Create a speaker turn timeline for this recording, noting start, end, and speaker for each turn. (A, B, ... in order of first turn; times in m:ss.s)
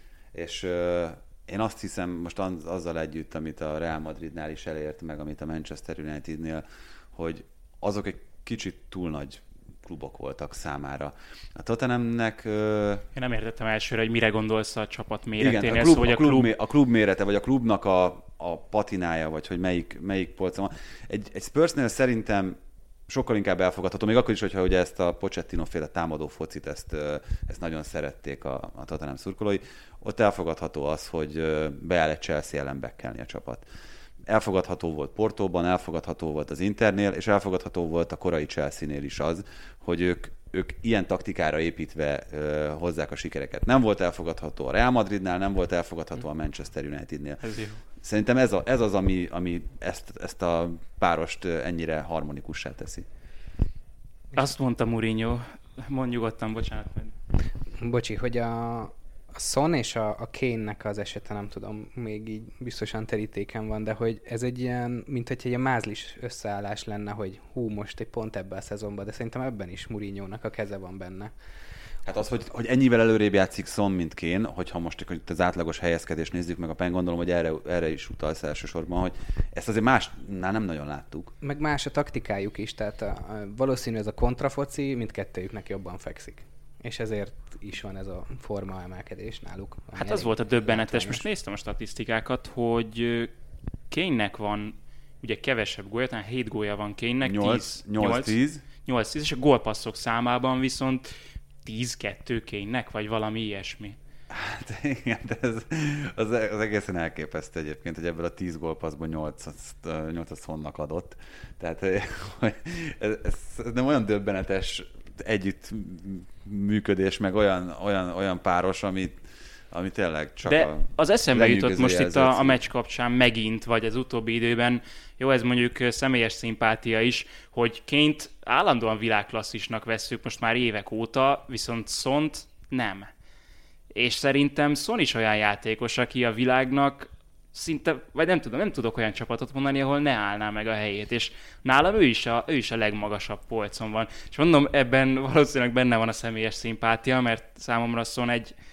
0:00.3-0:13.0 A
0:13.1-0:16.5 B
0:15.4-0:33.6 A
0:34.3-0:47.4 A
0:47.4-0:47.8 B
0:48.0-0:53.0 A
0:54.3-0:57.1 B
0:57.7-1:11.3 C
1:12.0-1:21.3 A
1:21.4-1:31.2 C
1:30.0-1:33.3 B
1:33.9-1:41.1 B
1:37.2-1:38.6 A
1:41.6-1:44.0 B
1:44.3-1:59.2 A
1:59.7-2:02.6 A
2:00.4-2:13.1 B
2:13.9-2:28.5 B